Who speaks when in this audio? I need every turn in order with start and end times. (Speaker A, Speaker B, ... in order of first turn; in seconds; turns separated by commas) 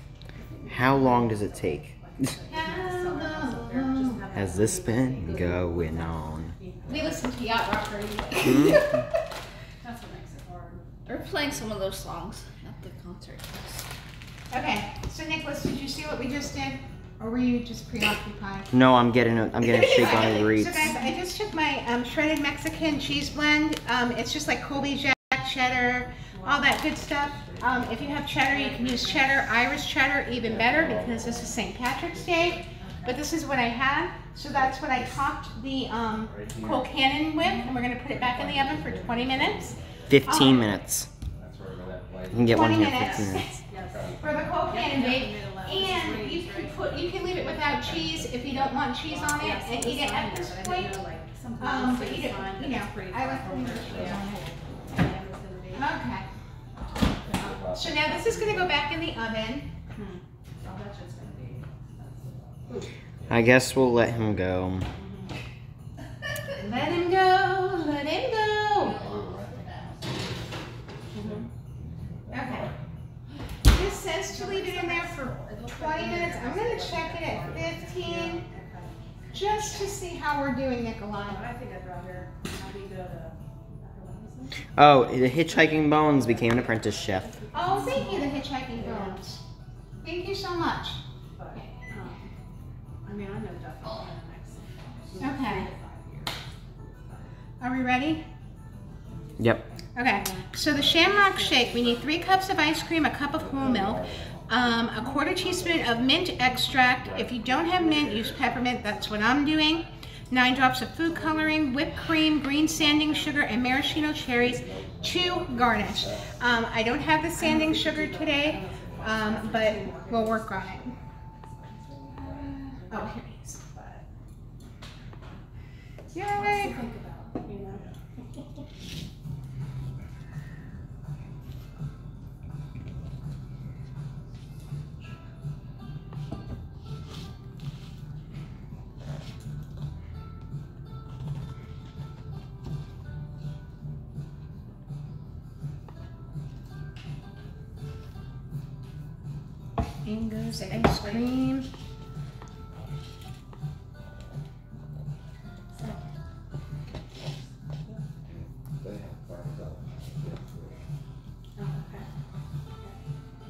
Speaker A: 0.3-7.2, Speaker B: 0.7-1.9, Speaker C: 2.5-4.2, Speaker B: 4.3-6.5, Speaker C: 6.8-9.0, Speaker B: 8.4-8.9, Speaker A: 9.8-10.9, Speaker D: 11.1-13.8, Speaker C: 14.5-18.7, Speaker B: 18.7-20.9, Speaker C: 19.6-40.7, Speaker A: 26.3-26.6, Speaker E: 27.1-28.3, Speaker A: 28.4-29.4, Speaker E: 30.4-32.6, Speaker A: 32.7-33.2, Speaker E: 34.5-35.2, Speaker E: 36.3-36.9, Speaker A: 37.4-37.8, Speaker E: 38.1-40.7, Speaker B: 40.1-41.1, Speaker E: 41.3-42.9, Speaker B: 42.3-43.5, Speaker C: 42.5-43.6, Speaker A: 42.9-47.1, Speaker E: 43.9-44.6, Speaker C: 44.2-51.0, Speaker E: 47.0-48.8, Speaker A: 49.0-55.9, Speaker C: 51.6-54.5, Speaker E: 53.9-54.2, Speaker C: 55.7-56.3, Speaker E: 57.2-58.9, Speaker A: 57.2-57.5, Speaker C: 57.7-59.7, Speaker A: 59.9-62.9, Speaker E: 63.3-64.3, Speaker B: 63.3-64.9, Speaker A: 64.9-65.3, Speaker C: 66.6-69.0, Speaker D: 68.7-70.0, Speaker E: 68.9-70.6, Speaker A: 71.1-71.4, Speaker E: 71.1-72.8, Speaker C: 72.3-72.7, Speaker A: 73.6-80.0, Speaker C: 73.7-78.4, Speaker C: 79.3-81.4, Speaker A: 81.2-84.6, Speaker B: 84.8-87.3, Speaker A: 85.7-89.2, Speaker C: 87.5-89.4, Speaker C: 90.0-91.0, Speaker A: 91.3-92.3, Speaker C: 91.5-92.1, Speaker A: 93.0-97.2, Speaker C: 95.2-95.7, Speaker C: 97.6-98.2, Speaker C: 99.9-120.9, Speaker A: 100.0-102.7, Speaker E: 103.3-104.6, Speaker A: 104.9-106.0, Speaker E: 107.0-109.9, Speaker A: 111.0-113.5, Speaker E: 114.0-116.4, Speaker A: 117.3-120.6, Speaker E: 118.9-119.2, Speaker E: 120.8-121.2, Speaker A: 121.5-123.1, Speaker E: 122.1-122.5, Speaker C: 122.2-123.8, Speaker A: 123.8-124.0, Speaker C: 126.1-126.9, Speaker A: 126.3-127.8, Speaker E: 127.7-128.0, Speaker C: 150.1-151.7, Speaker A: 150.6-151.4, Speaker A: 155.7-156.0, Speaker E: 158.2-160.8, Speaker A: 161.6-162.1